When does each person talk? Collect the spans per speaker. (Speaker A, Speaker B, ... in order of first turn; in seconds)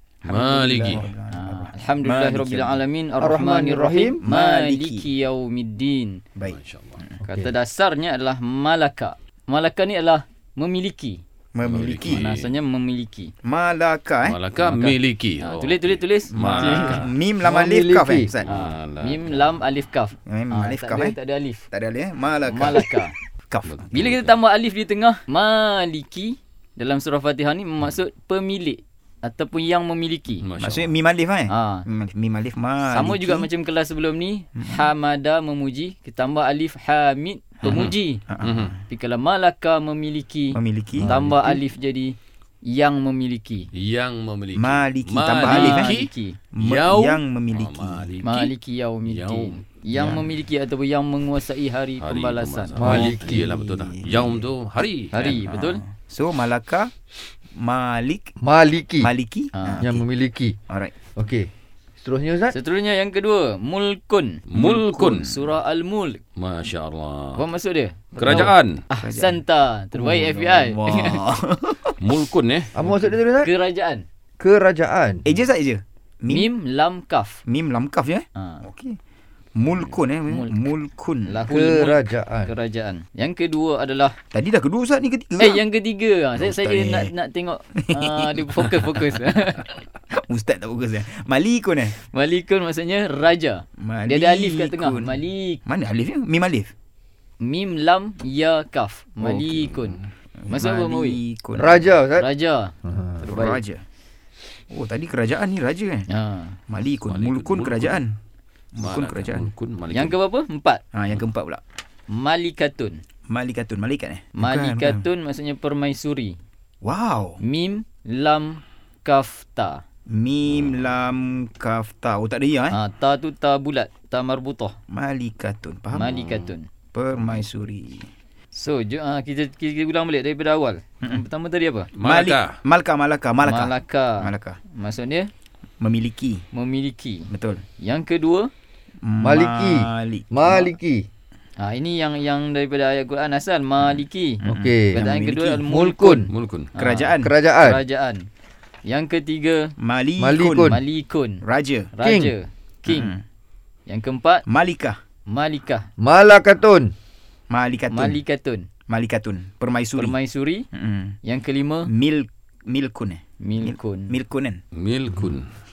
Speaker A: 0.2-2.8, 4.2-5.1, 6.3-7.2, 11.5-12.3, 13.4-14.4, 16.3-18.5, 20.2-21.1, 21.7-22.9, 23.5-23.8, 30.6-33.5, 34.6-34.9, 37.6-38.8, 40.5-41.1, 44.5-46.0, 46.5-48.1, 49.9-50.3, 52.9-54.5, 55.3-56.9, 57.6-58.3, 59.0-60.0, 60.7-60.9, 64.5-65.5, 68.2-69.4, 69.9-72.0, 75.2-76.5, 77.5-79.0, 79.5-81.4, 84.3-85.6, 86.4-87.1, 87.8-88.7, 90.1-91.9, 93.8-96.7, 100.4-101.9, 103.2-103.8, 104.7-106.0, 106.7-108.2, 108.8-109.5, 110.9-111.6, 113.3-115.0, 116.8-117.4, 120.1-122.8, 124.9-126.2, 126.9-128.1, 132.0-134.6, 135.8-136.4, 137.3-137.6, 139.0-140.7, 144.5-145.6, 146.8-147.3, 149.8-150.8, 151.4-151.9, 152.9-153.2, 154.5-155.0, 157.5-158.2, 158.9-160.2, 160.7-161.2, 161.9-164.6
Speaker B: 0.2-1.0, 6.4-7.0, 11.6-12.5, 14.2-17.1, 18.4-19.4, 23.7-24.3, 30.4-30.9, 37.6-38.7, 43.7-48.5, 49.0-49.6, 52.0-55.4, 64.5-65.3, 66.3-67.5, 68.2-68.8, 72.0-72.7, 99.2-100.0, 107.1-108.0, 108.8-110.2, 126.0-126.5, 131.9-132.6, 146.3-146.7, 164.7-165.5
Speaker C: 1.3-6.2, 7.2-11.2, 12.1-13.3, 14.6-17.1, 18.5-21.6, 22.5-23.1, 23.9-30.4, 31.5-31.9, 32.9-38.2, 38.9-43.7, 45.4-46.4, 48.2-53.1, 55.1-55.8, 59.5-59.9, 62.5-64.4, 65.2-66.2, 67.3-71.2, 73.4-74.0, 76.3-77.4, 78.3-78.6, 80.3-80.5, 81.3-84.2, 85.4-89.7, 91.9-95.6, 97.4-101.2, 102.1-102.7, 103.3-103.6, 106.1-106.6, 109.9-110.8, 112.1-113.0, 114.4-116.4, 117.4-119.8, 122.7-124.7, 125.9-126.7, 128.5-131.9, 133.4-135.3, 136.5-137.3, 137.8-138.5, 141.6-148.3, 148.8-149.7, 150.6-151.4, 151.9-153.1, 153.9-154.4, 155.3-155.9, 157.9-158.7, 160.0-160.7, 161.2-161.9, 163.4-164.2
Speaker D: 3.2-4.2, 17.4-18.3, 41.0-41.6, 52.8-53.5, 58.4-59.1, 59.8-60.6, 61.1-62.5, 72.7-73.5, 74.4-75.2, 81.5-82.5, 101.6-102.3, 102.8-103.3, 139.2-141.1, 144.4-145.0, 145.6-146.3, 147.2-147.8, 150.2-150.8, 152.0-152.3, 156.0-156.9